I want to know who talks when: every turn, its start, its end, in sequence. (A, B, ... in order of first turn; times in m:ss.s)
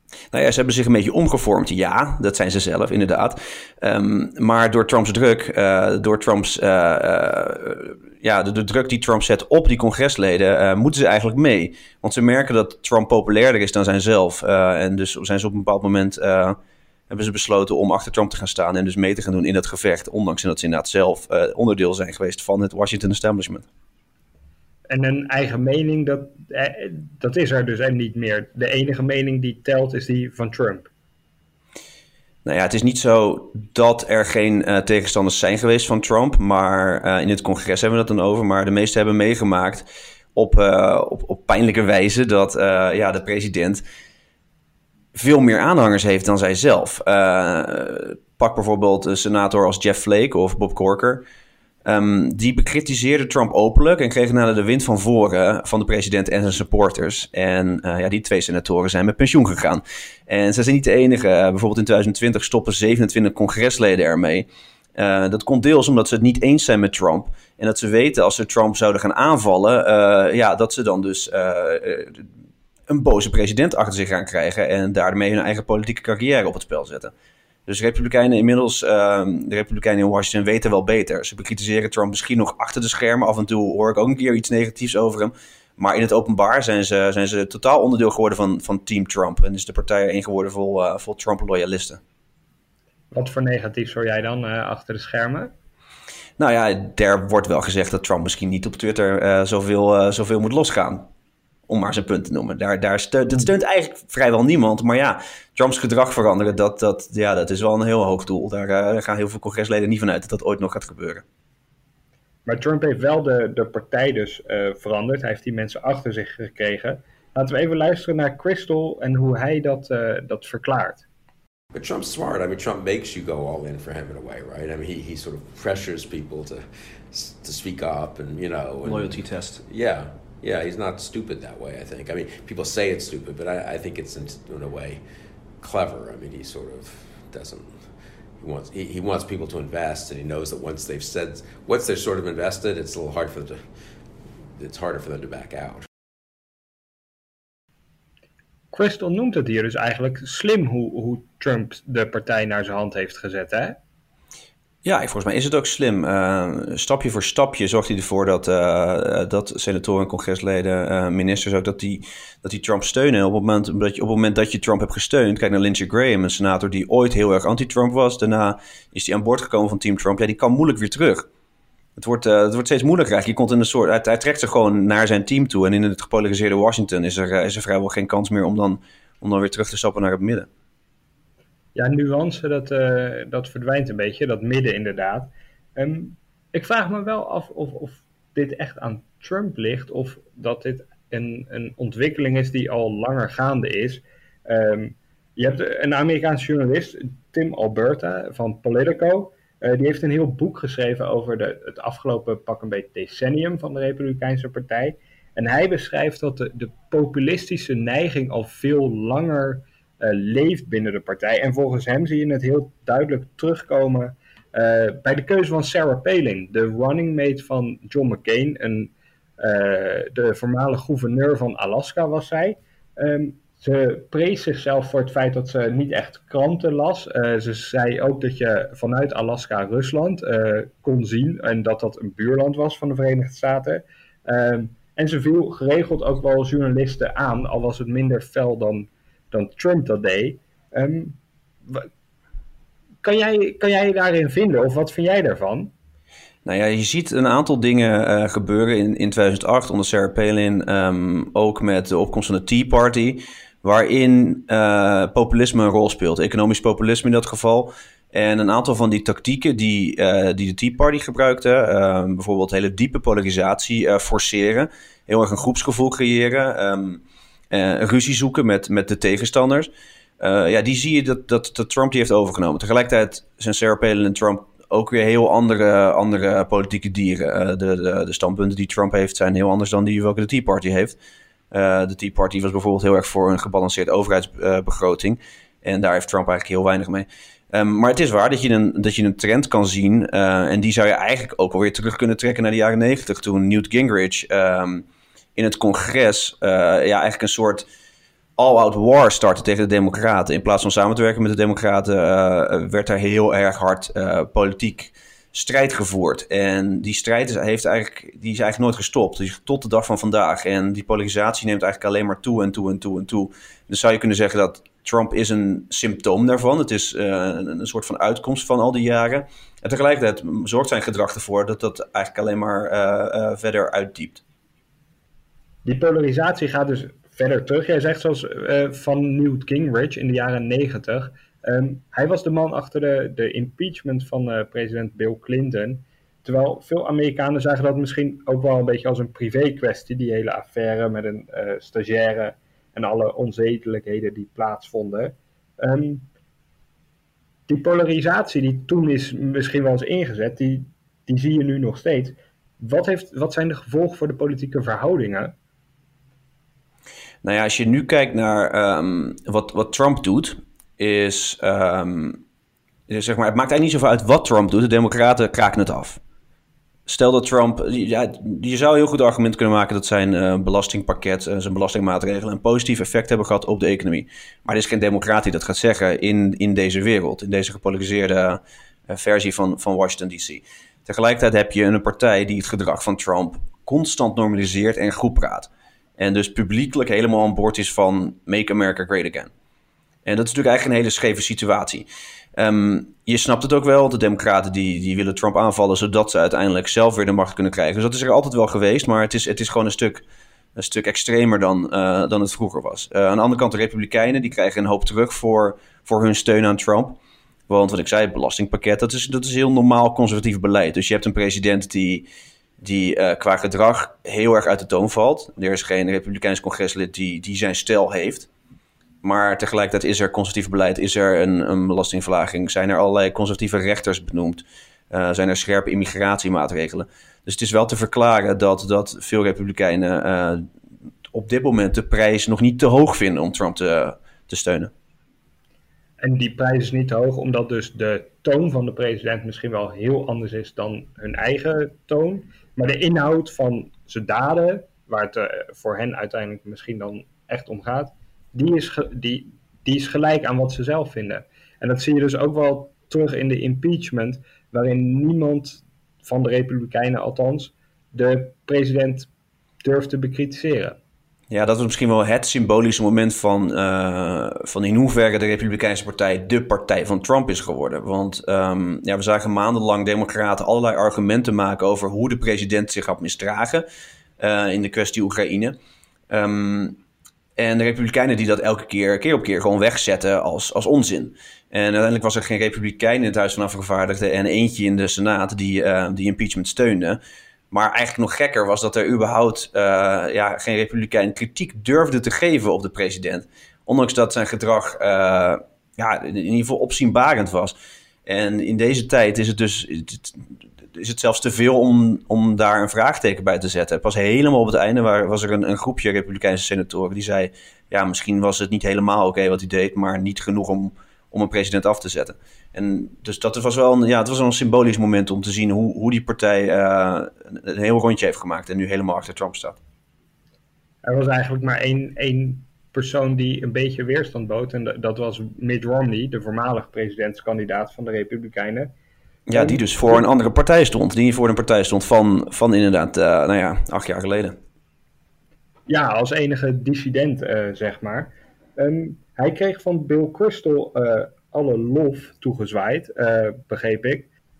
0:00.3-0:16.6 A
0:17.1-0:23.6 A
0:24.9-0:30.9 B
0:32.4-0:43.8 A
0:45.1-0:51.2 A
0:51.8-1:12.3 A
1:12.9-1:17.1 A
1:17.7-1:32.0 A
1:33.1-1:35.5 B
1:36.4-1:41.0 A
1:41.7-1:51.2 A
1:52.4-2:01.0 B
2:01.7-2:15.0 C
2:08.8-2:09.6 A
2:15.6-2:17.7 C
2:18.4-2:23.6 C
2:24.6-2:25.8 C
2:28.7-2:33.8 B
2:34.8-2:51.2 A
2:52.0-3:00.5 A
3:01.7-4:01.9 B
4:03.0-4:05.7 B
4:06.4-4:41.0 A
4:41.5-4:54.8 A
4:55.4-4:57.6 A
4:58.4-5:24.2 A
5:25.6-5:46.1 B
5:47.5-5:55.3 B
5:57.2-6:02.2 A
6:02.9-6:06.0 A
6:06.9-6:29.3 A
6:30.0-6:40.0 A
6:40.6-6:47.0 A
6:47.5-6:52.1 A
6:52.6-6:58.3 A
6:59.0-7:10.4 A
7:11.1-7:14.7 A
7:16.0-7:39.1 B
7:39.6-7:40.8 B
7:41.3-7:53.6 A
7:54.2-7:55.5 A
7:56.1-7:56.8 A
7:57.4-8:07.0 A
8:07.5-8:39.6 A
8:40.8-8:48.7 B
8:49.3-8:54.4 A
8:49.3-8:50.0 B
8:55.7-9:04.1 B